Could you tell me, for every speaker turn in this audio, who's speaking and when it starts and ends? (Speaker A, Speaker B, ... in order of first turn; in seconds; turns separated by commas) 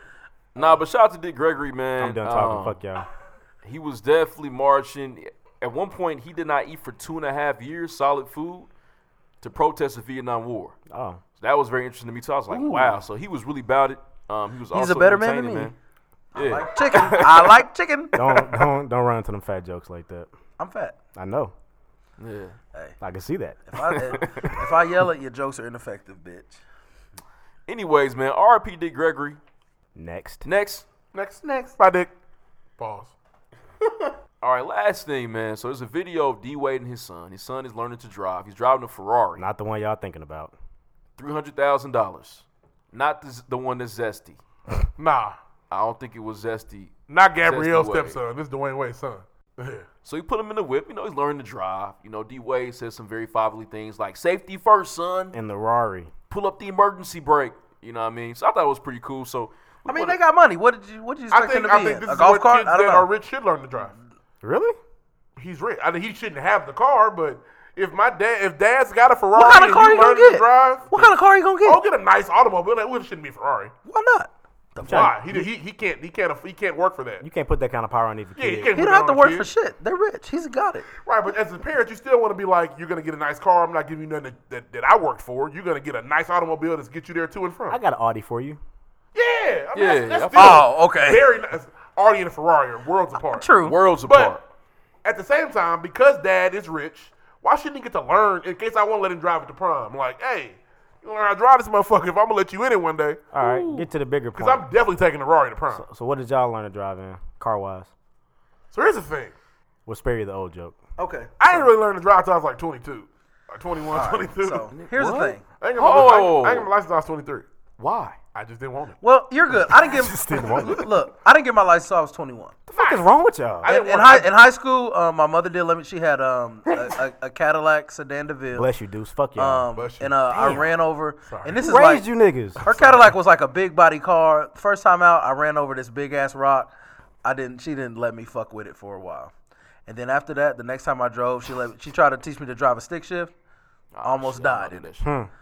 Speaker A: 0.6-2.8, Speaker B: 2.0-3.1, Speaker A: 3.6-8.7, Speaker A: 9.4-10.8, Speaker B: 10.9-11.2, Speaker A: 11.4-15.8, Speaker C: 12.5-13.0, Speaker C: 14.7-15.7, Speaker C: 16.3-18.2, Speaker A: 16.4-17.6, Speaker B: 18.1-20.3, Speaker C: 20.6-21.0, Speaker B: 21.1-21.5, Speaker A: 22.2-22.6, Speaker B: 23.0-24.2, Speaker C: 23.7-26.6, Speaker A: 27.7-29.4, Speaker B: 29.9-30.5, Speaker A: 30.4-30.9, Speaker D: 31.1-32.1, Speaker D: 32.8-33.1, Speaker A: 34.4-39.4, Speaker B: 39.4-40.5, Speaker A: 41.2-44.4, Speaker D: 45.0-45.4, Speaker A: 45.7-48.2, Speaker D: 47.1-49.9, Speaker A: 50.0-55.4, Speaker B: 55.3-56.1, Speaker A: 56.3-60.2, Speaker C: 59.9-63.1, Speaker D: 61.3-63.9, Speaker B: 64.4-64.8, Speaker D: 65.4-71.1, Speaker C: 69.3-71.8, Speaker D: 71.6-73.7, Speaker C: 73.8-75.1, Speaker B: 74.8-75.5, Speaker D: 74.8-77.2, Speaker B: 77.2-78.7, Speaker D: 78.4-79.5, Speaker C: 78.7-80.9, Speaker D: 81.0-87.8, Speaker B: 87.7-88.6, Speaker D: 89.1-93.5, Speaker A: 89.7-90.7, Speaker C: 90.3-91.2, Speaker C: 93.2-93.8, Speaker A: 93.6-94.4, Speaker D: 94.0-94.4, Speaker D: 95.0-103.2, Speaker B: 103.3-104.7, Speaker A: 103.4-103.9, Speaker D: 104.3-105.8, Speaker B: 105.7-107.9, Speaker D: 108.7-109.3, Speaker B: 109.9-110.8, Speaker C: 111.0-111.3, Speaker D: 111.4-114.7, Speaker C: 113.9-115.4, Speaker A: 114.8-116.7, Speaker D: 115.6-117.5, Speaker A: 117.8-118.2, Speaker D: 118.3-119.0, Speaker C: 119.0-122.5, Speaker B: 119.6-120.9, Speaker B: 122.7-123.7, Speaker D: 122.8-123.0, Speaker D: 123.6-124.3, Speaker C: 123.7-128.7, Speaker B: 128.5-129.7, Speaker C: 129.4-132.1, Speaker D: 129.8-130.6, Speaker B: 130.3-130.7, Speaker D: 131.3-131.6, Speaker B: 131.6-132.6, Speaker C: 132.6-136.7, Speaker D: 132.7-132.9, Speaker C: 137.2-139.3, Speaker C: 139.9-143.3, Speaker A: 143.9-145.1, Speaker C: 144.0-144.9, Speaker B: 145.0-145.3